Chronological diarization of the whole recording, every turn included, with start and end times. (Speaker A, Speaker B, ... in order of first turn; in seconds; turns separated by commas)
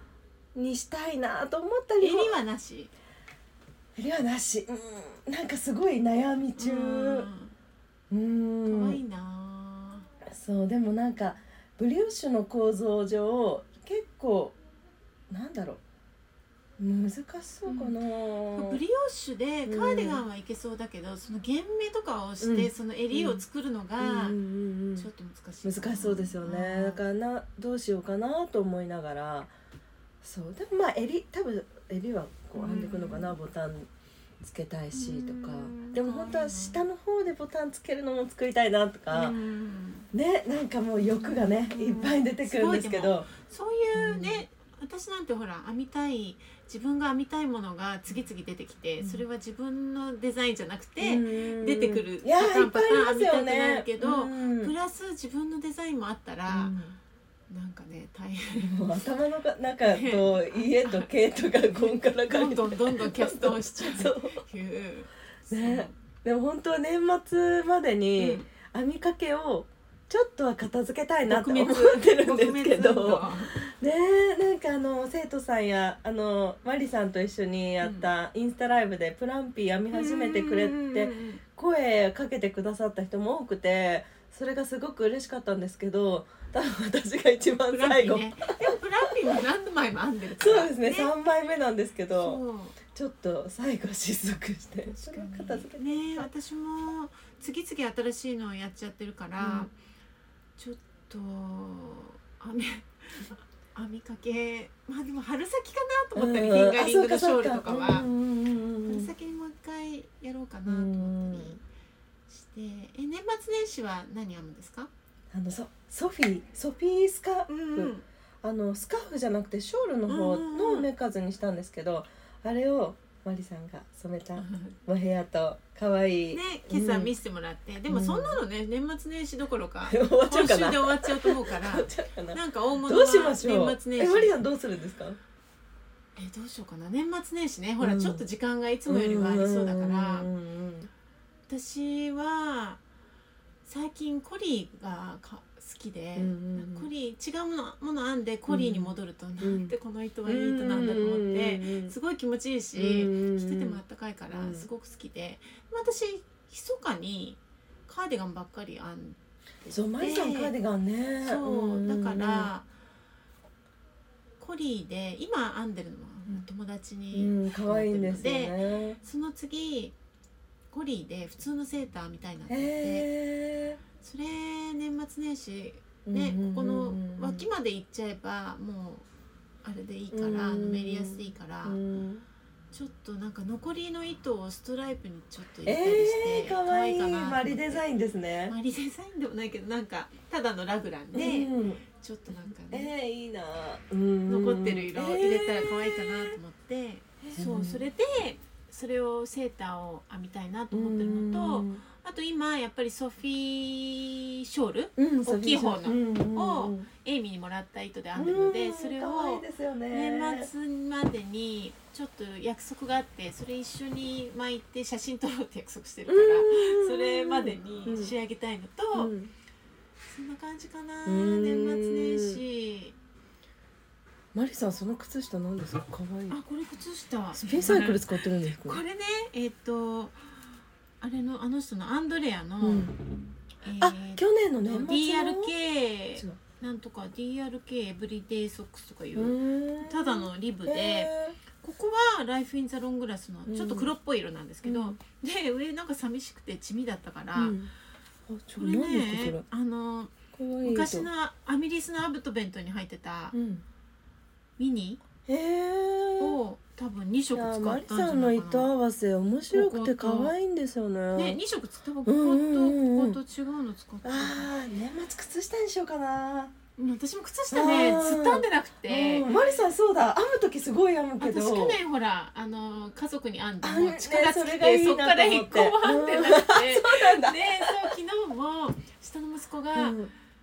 Speaker A: 0.5-2.4, Speaker B: 2.0-2.9, Speaker A: 4.0-7.3, Speaker B: 6.6-7.5, Speaker A: 8.1-9.0, Speaker B: 8.7-10.1, Speaker A: 10.3-14.6, Speaker A: 15.3-15.8, Speaker A: 16.8-18.8, Speaker B: 17.6-17.9, Speaker B: 18.5-24.4, Speaker A: 19.7-20.2, Speaker A: 22.4-23.4, Speaker A: 24.0-25.1, Speaker B: 24.9-27.0, Speaker A: 25.6-29.5, Speaker A: 30.2-33.9, Speaker B: 32.5-33.4, Speaker A: 34.4-39.3, Speaker B: 34.9-36.8, Speaker B: 39.1-40.1, Speaker A: 40.1-43.3, Speaker B: 41.0-56.7, Speaker A: 43.9-44.4, Speaker A: 51.0-54.7, Speaker A: 56.5-57.0, Speaker B: 57.5-59.0, Speaker A: 58.6-64.4, Speaker B: 59.8-66.0, Speaker A: 65.5-89.2, Speaker B: 68.2-68.5, Speaker B: 71.2-73.6, Speaker B: 77.8-78.1, Speaker B: 79.9-81.4, Speaker B: 87.7-91.1, Speaker A: 90.4-96.3, Speaker B: 92.1-92.8, Speaker B: 94.8-99.7, Speaker A: 99.4-99.7, Speaker B: 100.6-108.1, Speaker A: 106.1-109.1, Speaker B: 108.8-111.6, Speaker A: 110.6-111.6, Speaker B: 112.3-114.9, Speaker A: 115.3-127.1, Speaker B: 117.5-118.0, Speaker B: 120.1-120.9, Speaker B: 124.4-124.8, Speaker B: 126.3-134.3, Speaker A: 127.9-128.4, Speaker A: 129.8-135.2, Speaker B: 136.2-140.3, Speaker A: 137.8-138.2, Speaker A: 138.9-140.9, Speaker B: 141.5-142.8, Speaker B: 143.6-160.5, Speaker A: 146.2-146.9, Speaker A: 148.5-149.7, Speaker A: 150.2-151.9, Speaker A: 152.7-154.7, Speaker A: 159.7-162.5, Speaker B: 161.2-162.7, Speaker B: 164.4-169.9, Speaker A: 167.1-169.0, Speaker B: 170.7-173.1, Speaker A: 172.5-173.8, Speaker B: 174.0-179.1, Speaker A: 176.1-177.5, Speaker B: 179.6-181.8, Speaker A: 180.1-182.2, Speaker B: 182.7-187.8, Speaker A: 185.6-188.6, Speaker B: 188.5-192.9, Speaker A: 191.1-191.8, Speaker A: 192.7-196.4, Speaker B: 194.3-219.1, Speaker A: 197.2-197.9, Speaker A: 200.7-201.8, Speaker A: 205.0-206.9, Speaker A: 208.1-210.5, Speaker A: 216.1-218.1, Speaker A: 218.9-219.3, Speaker B: 220.1-222.9, Speaker A: 221.1-222.4, Speaker A: 224.3-226.4, Speaker B: 226.3-230.3, Speaker A: 227.3-228.8, Speaker B: 231.0-232.9, Speaker A: 232.6-233.0, Speaker B: 233.6-247.6, Speaker A: 233.8-235.5, Speaker A: 239.1-241.4, Speaker A: 243.5-243.9, Speaker A: 244.6-245.0, Speaker A: 247.3-247.7, Speaker A: 248.3-249.4, Speaker B: 248.6-253.3, Speaker A: 250.3-251.1, Speaker A: 253.3-253.6, Speaker B: 254.6-255.0, Speaker A: 255.2-256.4, Speaker B: 256.2-258.7, Speaker A: 257.3-261.4, Speaker B: 259.5-260.3, Speaker B: 261.1-264.5, Speaker A: 262.0-263.2, Speaker A: 264.0-266.5, Speaker B: 266.8-269.3, Speaker A: 267.5-271.8, Speaker B: 271.2-280.0, Speaker A: 273.6-277.9, Speaker A: 279.7-280.1